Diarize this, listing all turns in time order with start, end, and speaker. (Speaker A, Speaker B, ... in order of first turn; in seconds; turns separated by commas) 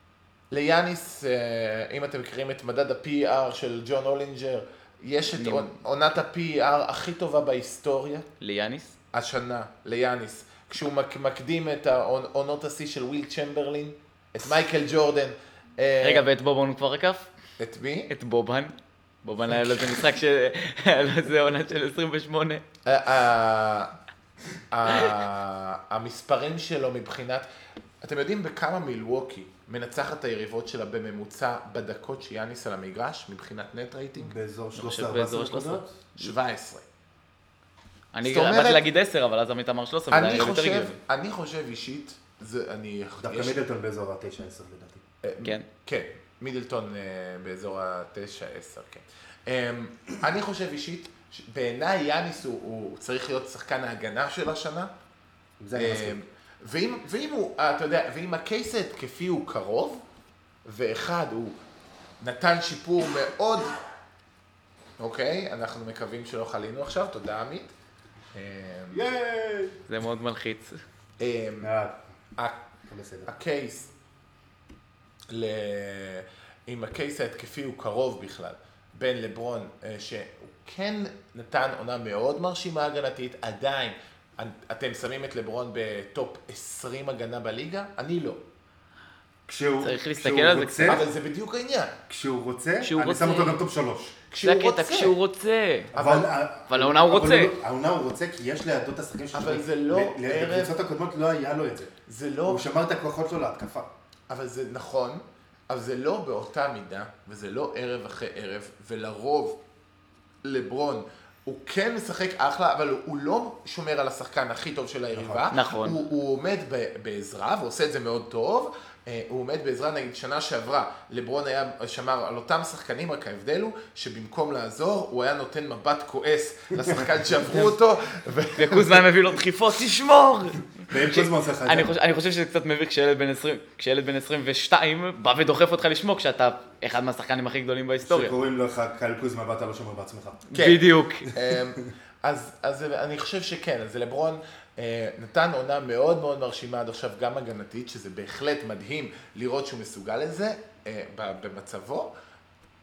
Speaker A: 0.5-8.3, Speaker B: 5.3-5.7, Speaker B: 8.4-8.9, Speaker A: 9.1-16.2, Speaker B: 16.0-17.3, Speaker A: 17.6-18.1, Speaker B: 18.1-22.6, Speaker A: 19.5-20.0, Speaker A: 22.8-23.9, Speaker A: 24.7-27.5, Speaker A: 28.0-34.3, Speaker C: 34.2-35.9, Speaker B: 34.7-36.3, Speaker A: 36.2-36.9, Speaker B: 38.1-41.0, Speaker A: 38.2-38.8, Speaker A: 40.1-43.6, Speaker C: 43.2-45.0, Speaker A: 45.2-54.9, Speaker C: 55.6-56.2, Speaker A: 55.7-60.0, Speaker A: 60.6-61.6, Speaker A: 62.2-63.8, Speaker A: 65.0-67.7, Speaker A: 68.3-69.0, Speaker C: 68.9-69.8, Speaker B: 69.9-70.8, Speaker A: 71.2-71.7, Speaker C: 71.6-72.0, Speaker C: 72.9-73.3, Speaker A: 73.2-73.9, Speaker A: 75.3-88.4, Speaker C: 89.5-91.0, Speaker B: 89.8-91.0, Speaker A: 90.8-92.0, Speaker C: 92.1-94.1, Speaker B: 92.8-93.6, Speaker A: 94.3-95.1, Speaker B: 94.4-95.9, Speaker C: 95.9-101.9, Speaker A: 95.9-96.3, Speaker B: 96.7-97.5, Speaker A: 99.3-100.7, Speaker A: 102.1-102.6, Speaker C: 102.5-103.9, Speaker A: 104.3-109.6, Speaker A: 110.4-129.0, Speaker C: 115.1-115.5, Speaker B: 115.5-116.0, Speaker B: 128.5-138.3, Speaker C: 130.9-131.9, Speaker C: 138.0-140.5, Speaker B: 140.5-141.3, Speaker A: 140.5-152.1